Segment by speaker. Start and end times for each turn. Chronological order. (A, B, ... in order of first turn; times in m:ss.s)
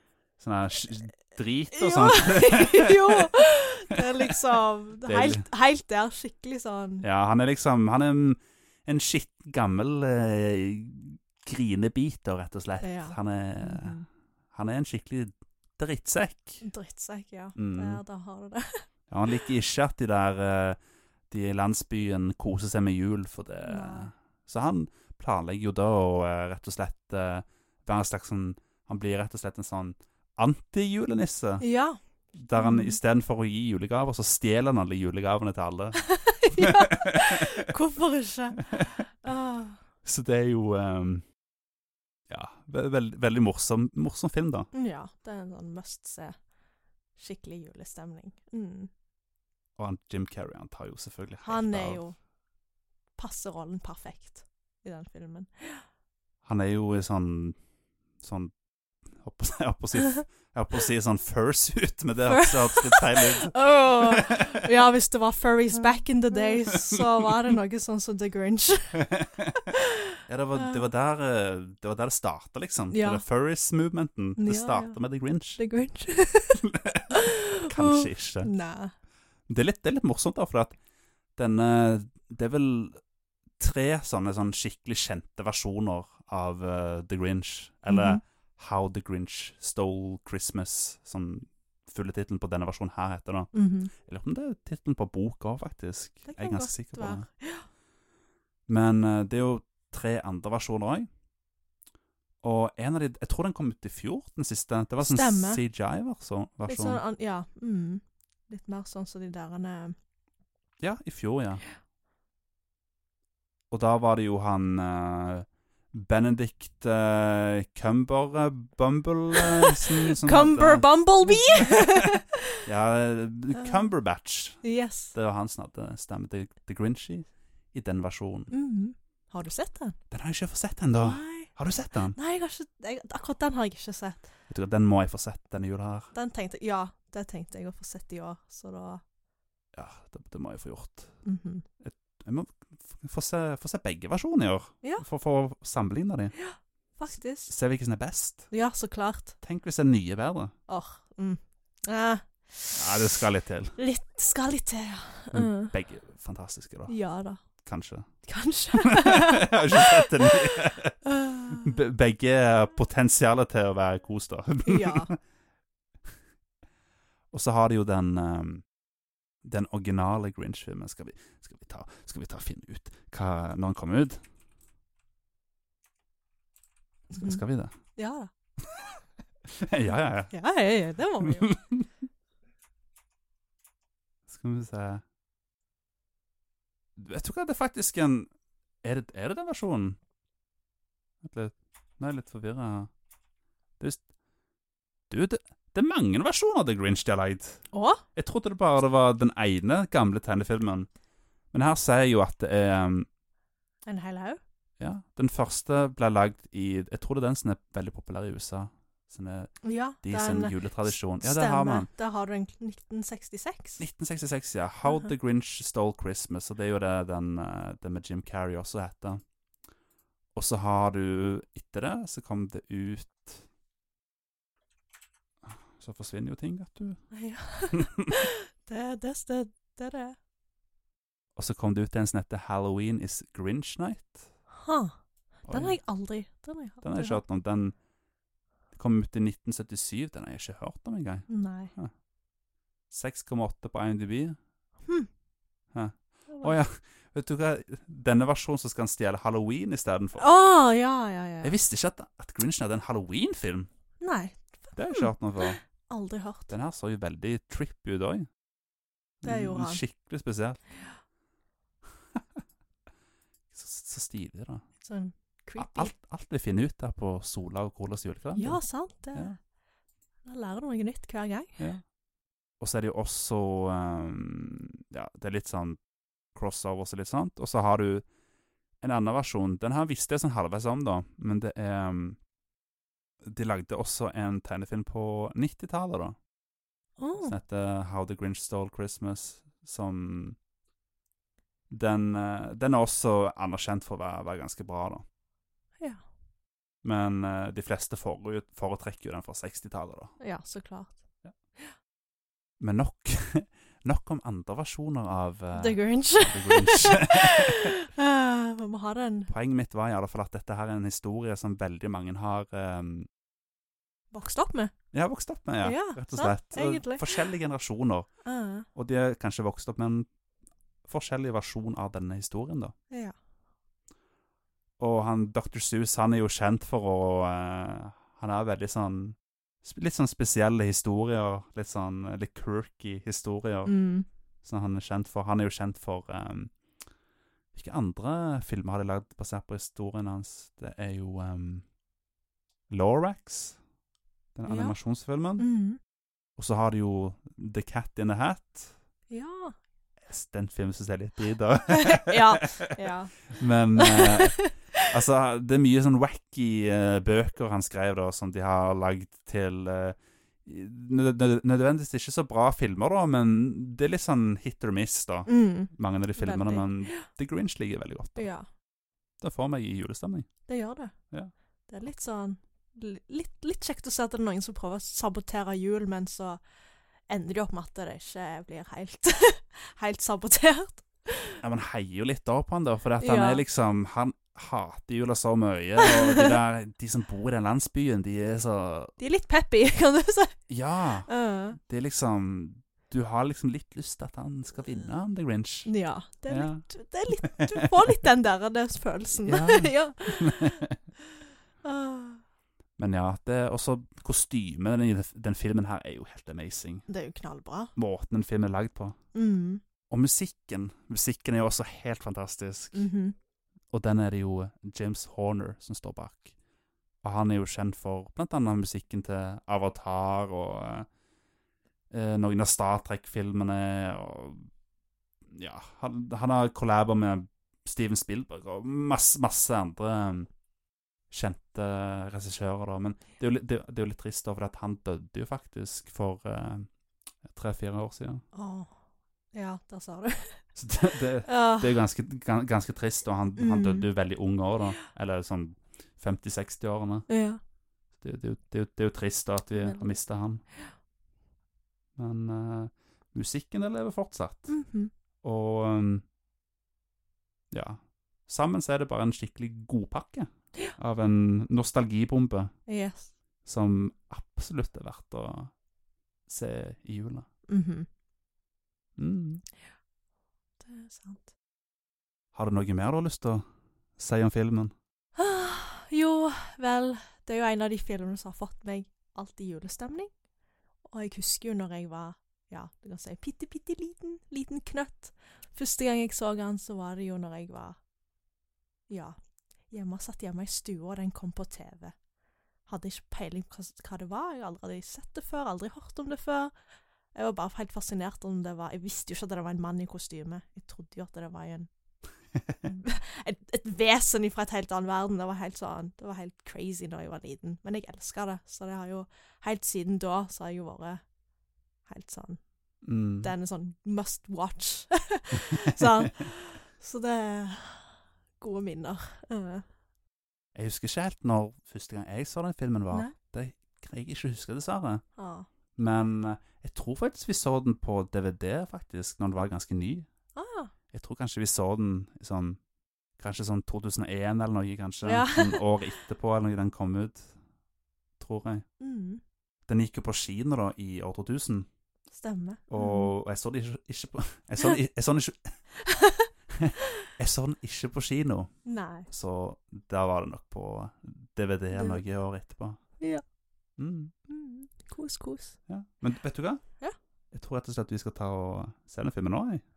0:00.4-0:03.3 A
0:01.7-0:07.1 B
0:05.0-0:05.5 A
0:07.0-0:14.0 A
0:12.8-0:14.1 B
0:14.5-0:16.6 A
0:16.6-0:18.8 B
0:17.6-0:18.0 A
0:19.1-0:31.6 A
0:23.6-0:24.1 B
0:31.6-0:32.0 B
0:32.4-0:37.4 A
0:32.5-0:33.0 B
0:36.0-0:39.8 B
0:40.0-0:41.2 A
0:42.3-0:44.7 A
0:44.7-0:46.4 B
0:47.2-0:48.9 B
0:49.8-0:52.0 A
0:51.4-0:52.2 B
0:53.2-0:55.8 B
0:56.4-0:57.6 A
0:58.2-0:58.5 A
0:59.2-1:04.6 A
1:02.2-1:09.1 B
1:09.1-1:09.4 A
1:10.3-1:15.6 A
1:10.6-1:10.9 B
1:12.9-1:13.2 B
1:14.4-1:15.0 B
1:15.6-1:18.9 B
1:16.6-1:18.5 A
1:19.5-1:20.8 A
1:21.4-1:23.0 A
1:23.6-1:37.3 A
1:27.9-1:28.2 B
1:33.5-1:33.9 B
1:36.3-1:37.7 B
1:38.7-1:41.1 A
1:42.4-1:47.0 A
1:45.0-1:45.6 B
1:46.7-1:50.0 B
1:50.8-1:51.6 A
1:53.7-2:02.0 A
1:59.6-2:02.6 B
2:02.6-2:08.5 A
2:03.6-2:03.9 B
2:04.6-2:05.1 B
2:08.5-2:10.0 B
2:10.1-2:12.2 A
2:11.0-2:11.6 B
2:12.1-2:14.3 B
2:14.5-2:16.1 A
2:16.1-2:19.0 B
2:19.7-2:21.2 A
2:21.2-2:21.6 B
2:21.8-2:26.3 A
2:26.3-2:27.5 B
2:27.5-2:28.5 A
2:28.5-2:29.4 B
2:29.4-2:30.5 A
2:30.7-2:33.0 B
2:32.7-2:33.8 A
2:33.8-2:35.7 B
2:35.3-2:37.0 A
2:36.9-2:37.4 B
2:37.6-2:38.1 A
2:38.2-2:41.7 B
2:38.7-2:41.0 A
2:41.5-2:45.2 A
2:44.6-2:45.1 B
2:47.3-2:48.6 A
2:49.4-2:54.2 A
2:57.1-2:57.4 B
2:57.1-2:57.7 A
2:58.0-2:58.3 B
2:59.5-3:00.3 A
3:00.3-3:01.6 B
3:01.4-3:01.9 A
3:04.3-3:05.0 A
3:07.0-3:08.3 A
3:08.8-3:10.0 A
3:11.2-3:12.9 A
3:15.1-3:17.6 A
3:17.7-3:18.0 B
3:18.2-3:20.9 A
3:21.5-3:23.1 A
3:23.9-3:24.4 B
3:24.8-3:31.9 A
3:29.6-3:33.8 B
3:33.8-3:39.2 A
3:40.4-3:43.4 A
3:45.5-3:47.0 A
3:47.1-3:50.2 B
3:51.4-3:54.2 A
3:54.5-3:57.2 B
3:55.5-3:55.8 A
3:56.8-3:57.8 A
3:58.7-4:01.9 A
4:01.3-4:01.7 B
4:02.9-4:04.4 A
4:05.7-4:10.3 A
4:06.3-4:06.6 B
4:10.2-4:11.6 B
4:11.4-4:13.7 A
4:14.0-4:16.5 B
4:14.8-4:15.6 A
4:16.5-4:18.3 A
4:19.2-4:20.6 A
4:19.2-4:19.8 B
4:23.5-4:24.6 A
4:24.8-4:25.9 B
4:25.6-4:28.6 A
4:28.3-4:29.3 B
4:30.2-4:31.6 B
4:32.6-4:35.8 A
4:36.4-4:38.0 A
4:38.8-4:42.2 A
4:43.2-4:46.2 A
4:47.0-4:47.4 B
4:47.2-4:50.4 A
4:51.7-4:55.0 A
4:56.8-5:00.1 A
5:00.2-5:01.0 B
5:02.6-5:07.7 A
5:05.5-5:09.3 B
5:09.3-5:13.1 A
5:14.1-5:14.7 B
5:14.9-5:18.1 A
5:15.6-5:17.2 B
5:18.2-5:18.7 B
5:18.8-5:20.1 A
5:20.9-5:22.7 A
5:22.9-5:23.2 B
5:24.8-5:33.8 A
5:33.6-5:34.1 B
5:34.4-5:36.5 A
5:37.5-5:41.6 A
5:42.7-5:43.6 A
5:44.4-5:45.5 A
5:44.5-5:44.8 B
5:45.4-5:45.8 B
5:46.4-5:48.7 A
5:49.1-5:49.6 B
5:50.1-5:52.7 A
5:51.7-5:54.5 B
5:53.4-6:08.3 A
6:05.3-6:07.1 B
6:08.2-6:08.5 B
6:09.2-6:10.3 A
6:10.5-6:10.9 B
6:11.7-6:16.4 B
6:17.1-6:21.4 B
6:21.4-6:28.9 A
6:23.0-6:23.4 B
6:25.8-6:26.3 B
6:29.0-6:30.4 B
6:30.5-6:31.1 A
6:31.1-6:31.6 B
6:31.6-6:35.7 A
6:35.7-6:40.6 B
6:36.3-6:36.6 A
6:37.4-6:37.7 A
6:39.2-6:40.7 A
6:41.6-6:42.2 B
6:42.8-6:46.9 A
6:46.9-6:47.7 B
6:47.8-6:49.0 A
6:49.1-6:49.6 B
6:49.9-6:52.9 A
6:52.7-6:53.2 B
6:53.7-6:56.3 A
6:57.0-7:00.9 A
7:01.9-7:04.5 A
7:05.3-7:10.3 A
7:11.1-7:16.7 A
7:17.2-7:18.2 A
7:18.3-7:18.7 B
7:19.3-7:20.4 B
7:20.6-7:27.1 A
7:21.2-7:21.8 B
7:23.4-7:23.9 B
7:27.1-7:27.4 B
7:28.0-7:30.4 A
7:29.6-7:30.0 B
7:32.0-7:34.6 A
7:34.5-7:34.9 B
7:35.2-7:36.0 A
7:37.5-7:42.5 A
7:42.7-7:43.1 B
7:43.4-7:45.5 A
7:46.3-7:47.2 A
7:47.5-7:47.9 B
7:49.0-7:49.4 A
7:50.6-7:51.3 B
7:52.3-7:53.4 A
7:54.0-7:54.7 A
7:55.2-8:00.1 B
8:00.8-8:07.8 B
8:08.9-8:09.2 B
8:09.7-8:12.0 B
8:12.7-8:16.5 B
8:17.1-8:21.7 B
8:22.6-8:31.0 B
8:31.9-8:32.4 B
8:32.8-8:33.3 A
8:33.2-8:39.6 B
8:40.6-8:45.0 A
8:45.2-8:45.5 B
8:45.8-8:50.1 A
8:50.3-8:50.7 B
8:50.9-8:52.6 A
8:53.2-8:57.3 A
8:55.0-8:55.7 B
8:58.2-8:58.7 A
8:58.8-8:59.2 B
8:59.7-9:01.7 A
9:02.1-9:03.1 B
9:02.7-9:05.4 A
9:05.8-9:06.3 B
9:06.5-9:08.6 A
9:08.6-9:09.1 B
9:09.1-9:12.8 A
9:11.7-9:12.0 B
9:13.8-9:14.1 A
9:14.3-9:15.6 B
9:15.7-9:16.6 A
9:17.3-9:19.6 A